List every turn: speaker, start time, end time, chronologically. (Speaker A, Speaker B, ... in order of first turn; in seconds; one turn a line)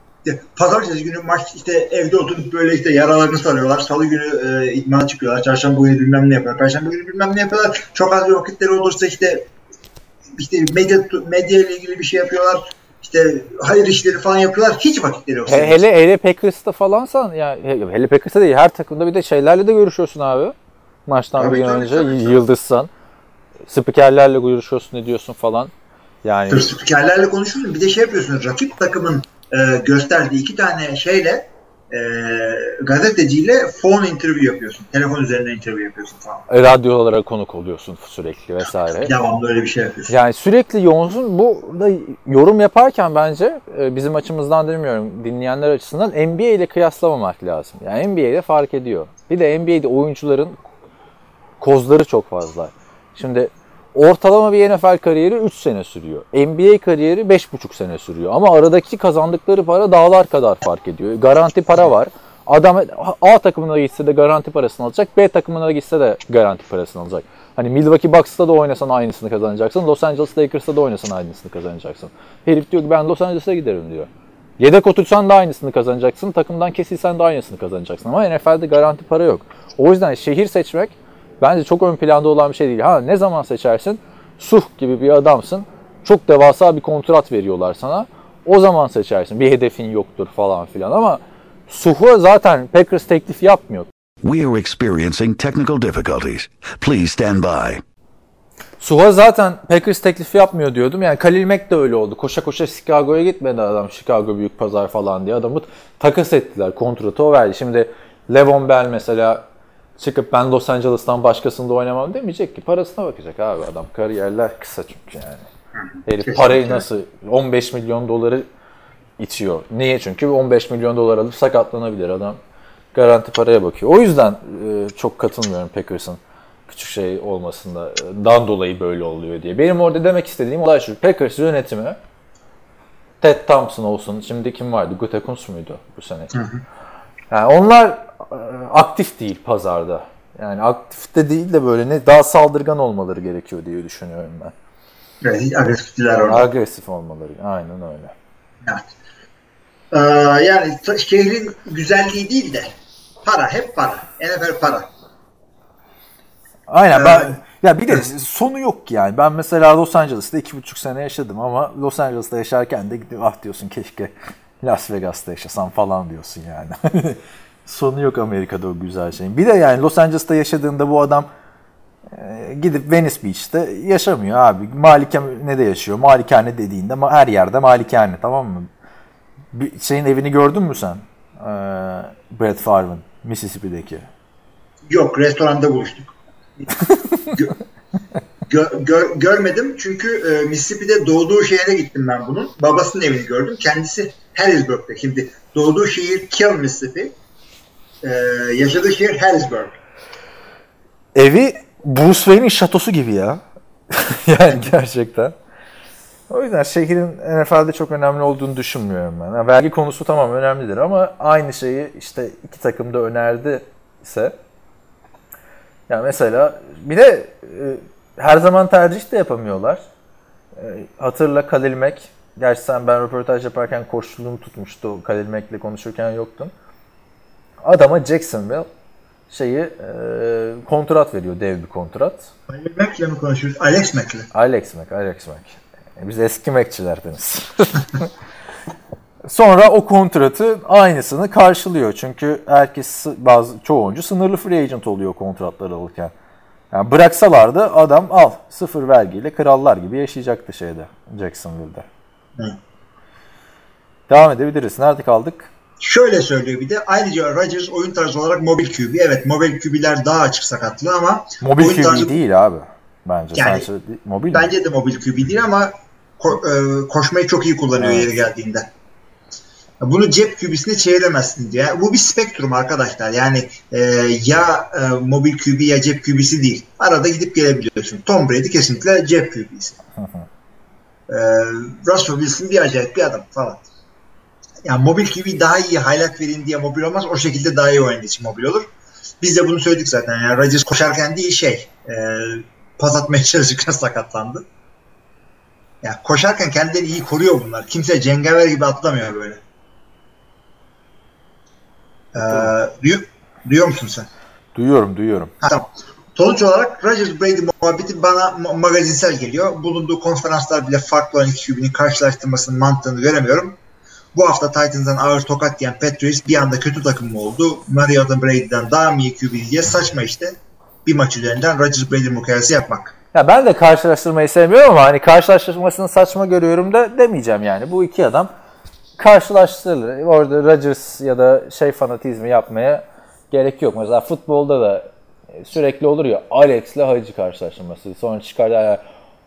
Speaker A: 0.2-9.5
Speaker A: 10.3-15.8
Speaker B: 15.5-20.6
Speaker B: 21.1-22.9
Speaker A: 21.4-22.4
Speaker B: 23.7-25.7
Speaker B: 26.2-26.7
Speaker A: 26.5-36.5
Speaker B: 36.5-39.1
Speaker A: 38.9-40.1
Speaker B: 40.1-50.6
Speaker B: 51.6-93.9
Speaker C: 94.2-97.8
Speaker B: 98.8-109.4
Speaker B: 110.0-115.5
Speaker B: 116.0-118.5
Speaker A: 116.2-116.8
Speaker B: 119.2-122.4
Speaker B: 122.9-132.0
Speaker B: 133.2-136.3
Speaker A: 136.3-136.6
Speaker B: 137.3-144.5
Speaker A: 145.2-146.5
Speaker B: 146.2-148.1
Speaker A: 148.6-148.9
Speaker A: 149.9-152.7
Speaker A: 153.2-154.9
Speaker B: 156.7-171.3
Speaker A: 156.9-157.4
Speaker B: 172.1-178.7
Speaker B: 179.5-184.1
Speaker A: 184.9-186.7
Speaker A: 188.5-197.2
Speaker A: 198.0-199.8
Speaker B: 201.2-205.3
Speaker B: 206.3-214.3
Speaker B: 215.9-219.8
Speaker B: 220.6-226.5
Speaker B: 227.6-228.7
Speaker B: 229.3-232.3
Speaker A: 232.5-234.3
Speaker B: 234.3-238.1
Speaker B: 239.2-246.1
Speaker B: 246.7-251.9
Speaker B: 254.1-255.5
Speaker A: 255.8-262.1
Speaker B: 261.4-264.5
Speaker A: 263.4-263.7
Speaker A: 264.3-268.7
Speaker B: 267.8-268.1
Speaker A: 269.8-279.8
Speaker B: 280.0-280.3
Speaker A: 281.1-283.6
Speaker A: 284.6-288.7
Speaker A: 289.2-294.5
Speaker A: 295.8-299.4
Speaker A: 302.1-304.1
Speaker B: 302.2-302.5
Speaker B: 304.6-305.3
Speaker A: 305.4-313.6
Speaker A: 314.1-322.9
Speaker B: 323.1-328.3
Speaker B: 329.0-334.9
Speaker B: 335.4-338.8